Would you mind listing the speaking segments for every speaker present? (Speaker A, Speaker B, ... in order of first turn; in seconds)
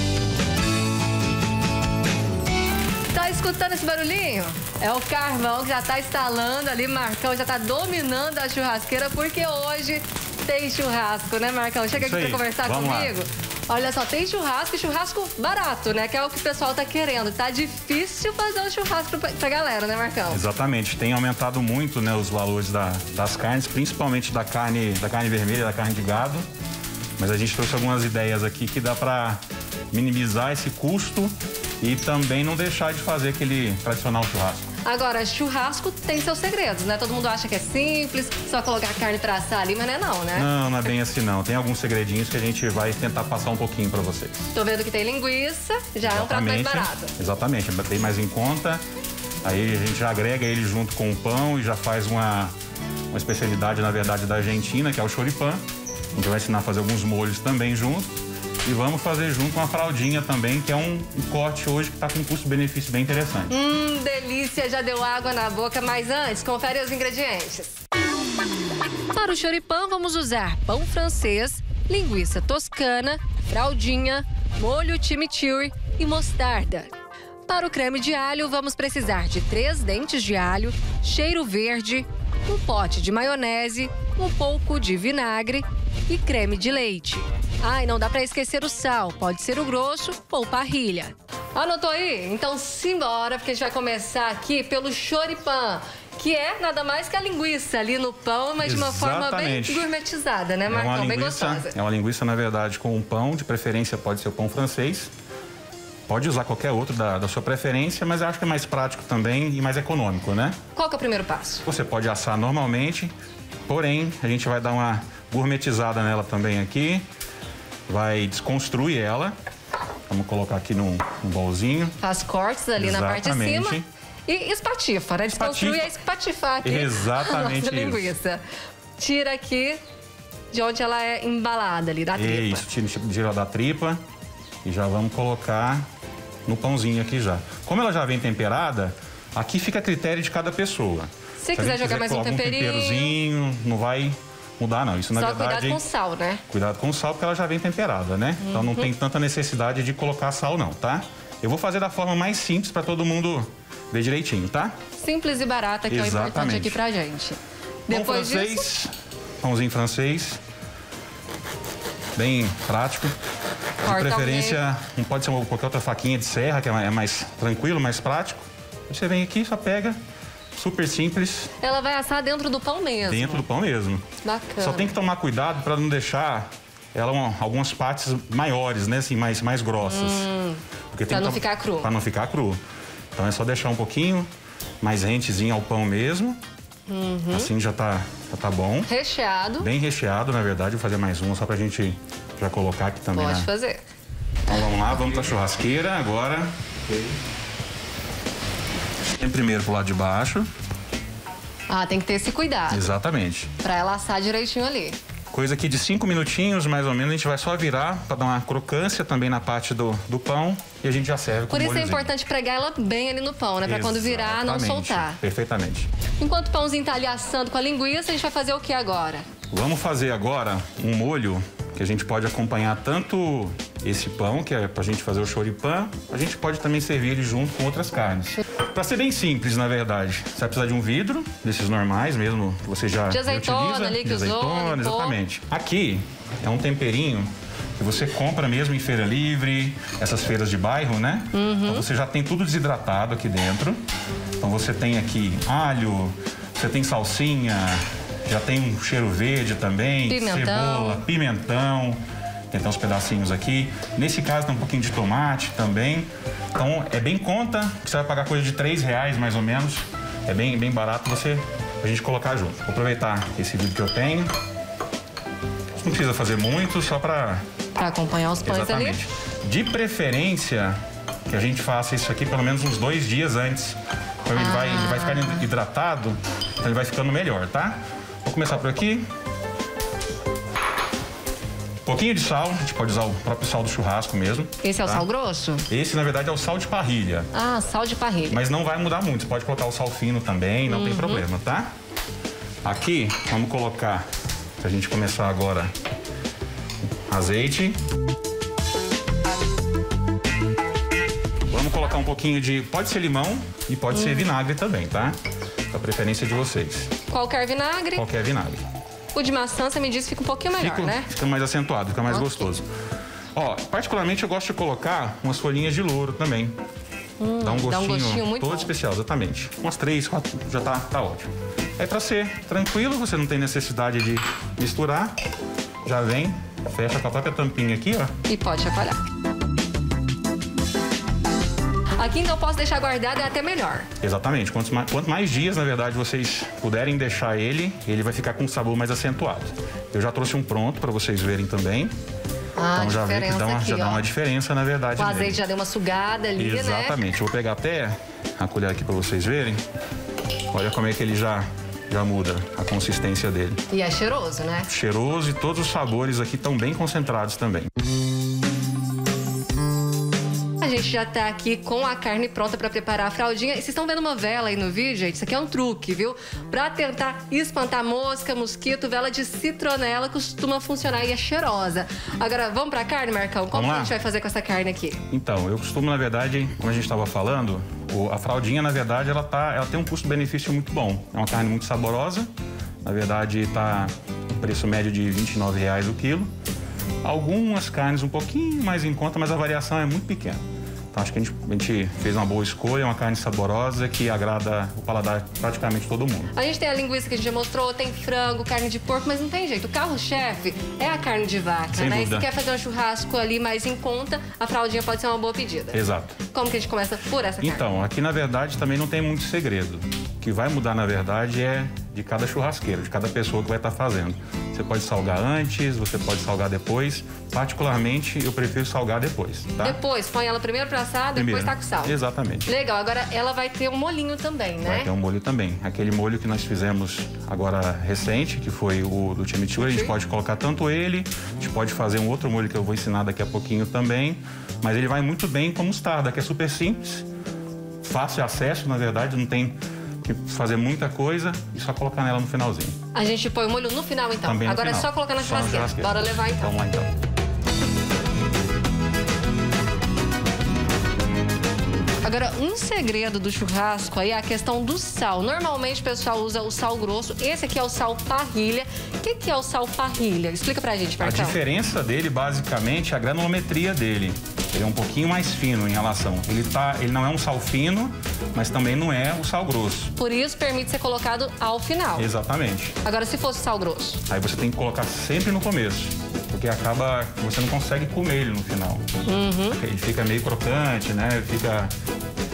Speaker A: 3.1-20.4, 34.9-40.5, 44.5-47.1, 63.5-67.8, 69.1-76.9, 77.5-101.7, 110.8-111.6, 122.0-128.4, 129.0-129.8, 130.5-132.7, 141.4-143.1, 145.1-146.4, 148.4-148.9, 155.0-158.7, 163.8-164.6, 171.6-173.4, 174.2-174.9, 179.8-181.9, 186.9-187.5, 188.9-189.7, 193.1-193.8, 201.7-202.8, 203.6-205.0, 211.5-215.2, 216.2-219.3, 233.1-235.2, 241.3-241.9, 250.1-251.0, 267.8-269.0, 274.4-275.5, 284.6-285.7, 287.3-288.4, 290.7-291.2, 303.9-304.3, 307.1-308.0, 309.1-311.1, 312.1-312.5, 317.2-318.7, 328.3-329.0, 332.0-333.9, 342.6-344.1, 345.0-347.0, 353.7-354.7, 360.6-375.0, 396.4-407.7, 419.6-424.9, 429.6-429.9, 442.9-446.6, 452.0-461.4, 470.0-472.1, 472.8-474.0, 479.1-479.6
Speaker B: 12.0-13.1, 20.3-26.5, 27.2-34.6, 40.4-44.5, 46.0-48.8, 49.4-52.5, 53.1-55.6, 56.1-58.1, 58.6-63.5, 98.6-99.9, 100.7-105.1, 106.1-110.6, 111.7-113.1, 113.7-117.0, 117.9-119.3, 120.1-122.0, 122.8-123.9, 125.3-125.9, 126.6-128.1, 132.1-134.0, 134.6-135.8, 136.5-145.8, 146.5-154.8, 155.9-156.8, 157.9-160.4, 162.2-163.2, 163.8-170.0, 170.6-171.5, 173.0-174.1, 174.6-180.3, 180.9-182.6, 183.2-184.3, 184.8-186.4, 187.3-188.9, 189.6-193.5, 194.5-196.5, 199.2-200.5, 202.7-203.5, 205.3-212.1, 213.7-215.9, 219.5-243.8, 244.4-264.3, 265.8-267.4, 268.4-279.1, 281.9-285.1, 285.7-287.3, 288.3-291.7, 292.6-294.1, 294.6-295.7, 297.1-297.8, 301.5-305.2, 305.7-306.9, 307.9-308.6, 310.5-312.7, 313.4-316.6, 317.4-325.2, 325.8-328.1, 334.0-341.9, 342.8-345.4, 346.4-349.6, 350.5-353.6, 354.7-357.7, 373.5-373.9, 375.1-382.3, 382.8-386.3, 387.0-396.3, 401.7-402.3, 405.7-406.2, 407.4-419.8, 421.1-422.5, 424.6-437.1, 437.8-442.8, 444.2-446.9, 461.0-469.9, 471.9-472.8, 474.1-478.9, 479.5-481.7